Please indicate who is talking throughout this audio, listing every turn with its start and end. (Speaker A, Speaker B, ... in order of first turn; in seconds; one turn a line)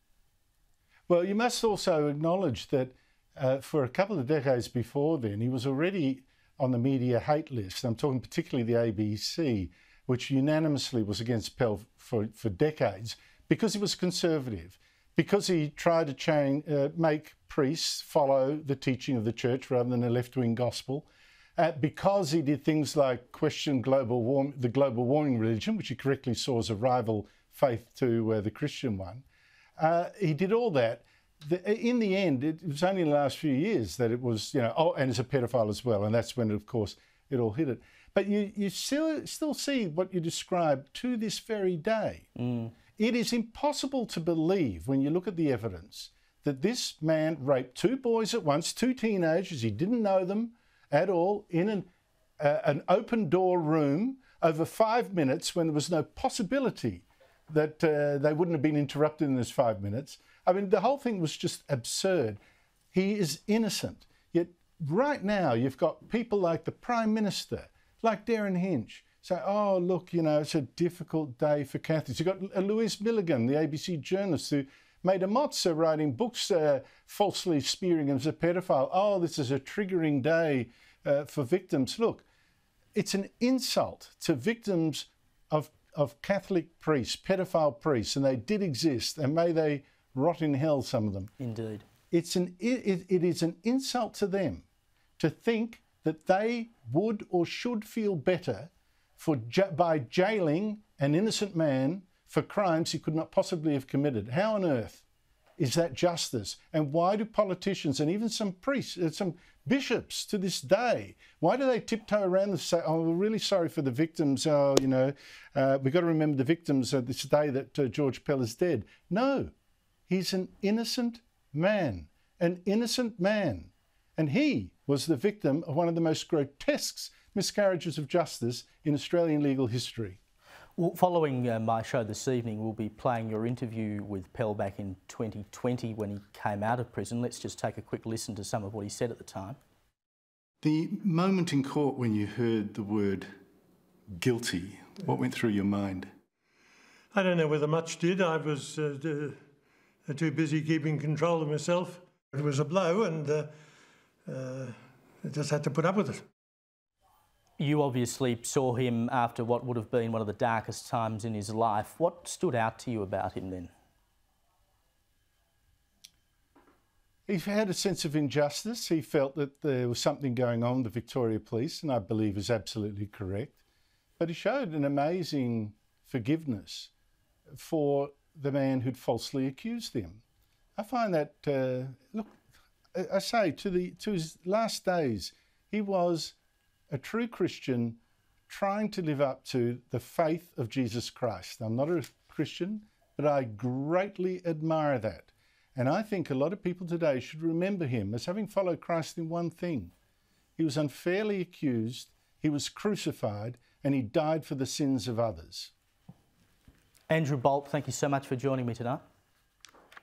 Speaker A: 1.1-29.2
Speaker A: 29.8-42.3
Speaker B: 42.4-42.7
Speaker A: 43.0-62.4
Speaker A: 62.9-82.2
Speaker A: 82.9-91.3
Speaker B: 91.4-91.8
Speaker A: 92.1-94.7
Speaker A: 95.2-105.0
Speaker A: 105.6-119.5
Speaker A: 120.1-130.2
Speaker B: 130.8-139.6
Speaker A: 140.6-143.3
Speaker A: 144.1-146.1
Speaker C: 147.1-149.4
Speaker C: 150.1-153.5
Speaker C: 154.2-156.3
Speaker B: 157.6-163.7
Speaker A: 167.3-173.6
Speaker A: 174.2-176.9
Speaker A: 177.5-180.2
Speaker A: 180.8-182.4
Speaker A: 182.9-186.3
Speaker A: 186.9-199.9
Speaker A: 200.6-205.7
Speaker B: 207.1-209.0